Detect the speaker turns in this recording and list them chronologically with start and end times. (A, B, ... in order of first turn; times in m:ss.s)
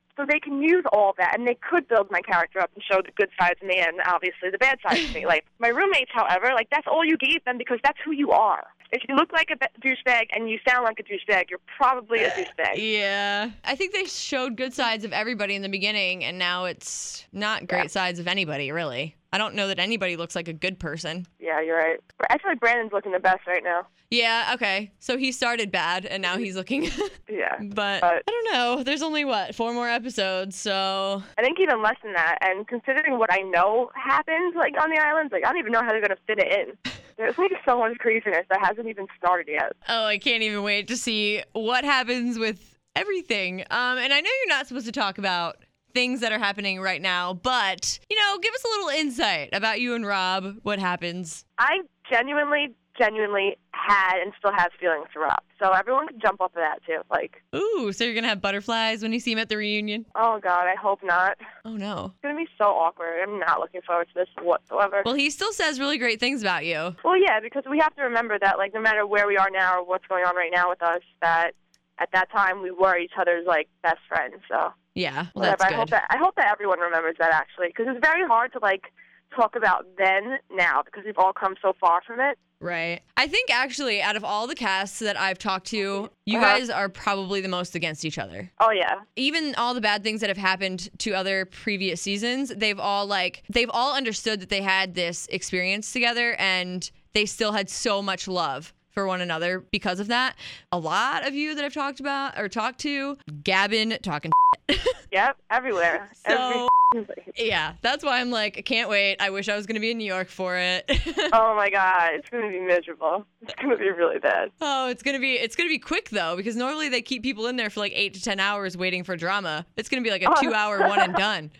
0:00.2-0:12.8 A
0:12.2-0:21.3 B
0:21.4-0:23.9 A
0:24.1-0:31.2 B
0:27.3-0:28.2 A
0:31.4-0:39.8 A
0:39.8-0:51.4 B
0:51.6-0:57.4 A
0:57.5-1:00.0 B
1:00.1-1:01.4 A
1:01.6-1:02.1 B
1:02.2-1:05.1 A
1:05.0-1:07.0 B
1:07.0-1:14.7 A
1:14.9-1:15.9 B
1:15.4-1:22.4 A
1:22.6-1:28.5 B
1:26.3-1:26.6 A
1:28.6-1:29.0 A
1:29.2-1:45.0 B
1:45.1-1:47.3 A
1:46.2-1:46.7 B
1:47.3-1:51.4 B
1:51.3-1:54.5 A
1:54.6-2:01.5 B
2:00.2-2:01.2 A